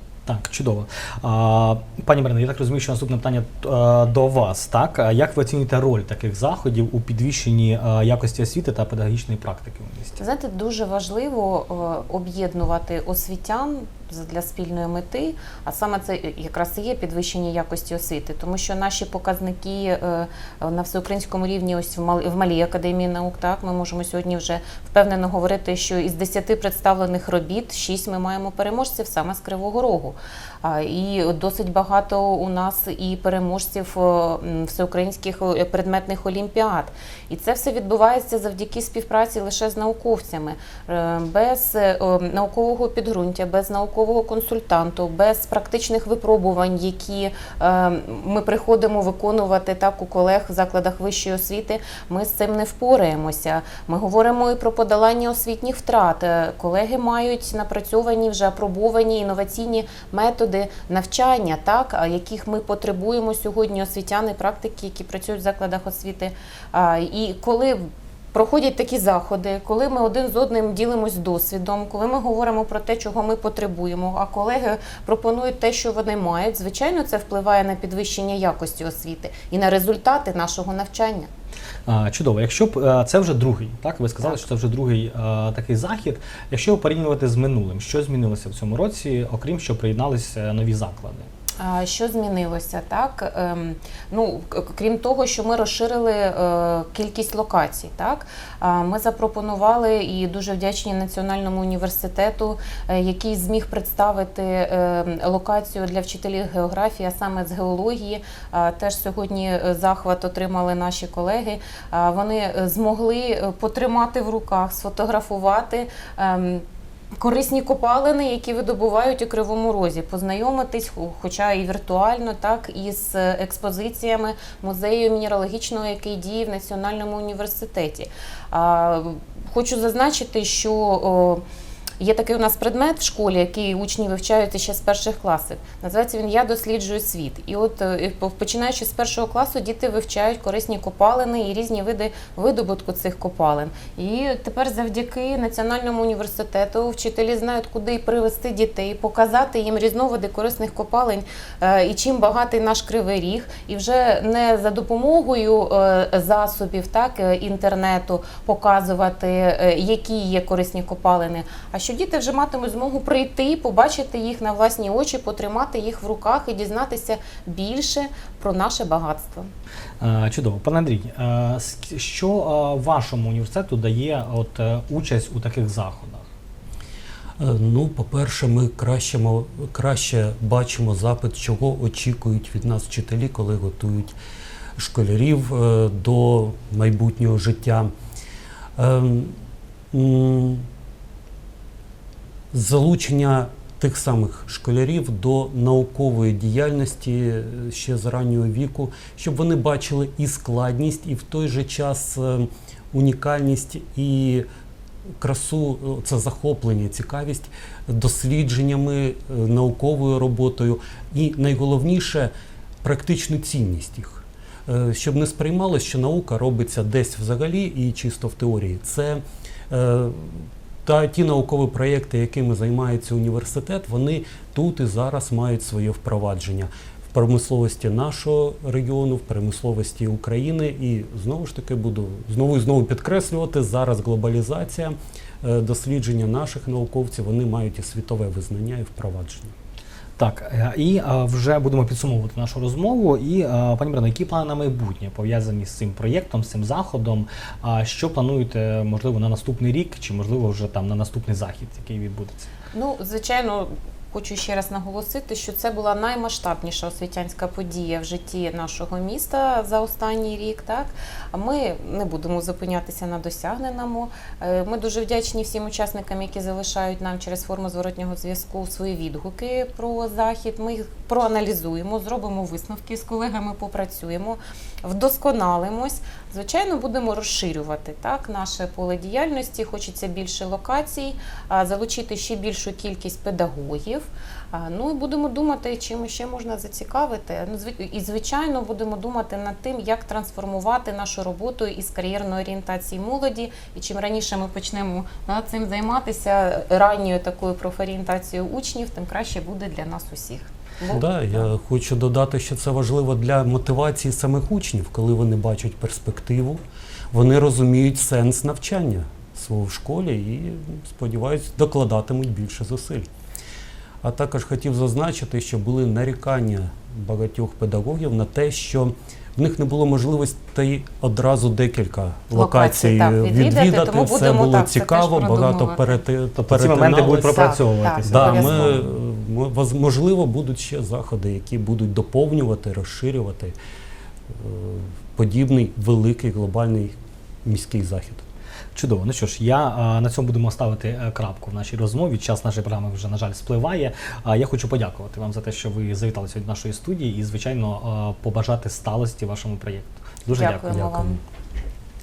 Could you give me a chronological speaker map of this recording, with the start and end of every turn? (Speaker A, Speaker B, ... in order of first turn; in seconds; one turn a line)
Speaker A: 0.2-10.2
Speaker B: 10.2-81.3
Speaker A: 81.9-91.3
Speaker B: 91.6-116.6
Speaker B: 117.2-131.4
Speaker B: 132.0-169.5
Speaker A: 170.0-176.2
Speaker C: 177.4-184.2
Speaker C: 184.8-187.9
Speaker C: 188.8-189.4
Speaker C: 189.9-190.7
Speaker C: 192.5-204.4
Speaker C: 205.2-212.3
Speaker C: 212.8-239.5
Speaker A: 240.2-252.5
Speaker B: 252.7-301.4
Speaker C: 300.9-306.6
Speaker C: 307.1-313.1
Speaker C: 314.0-333.5
Speaker B: 322.3-326.0
Speaker A: 326.4-328.8
Speaker B: 327.3-328.8
Speaker C: 334.3-338.2
Speaker A: 338.7-351.2
Speaker B: 350.3-351.2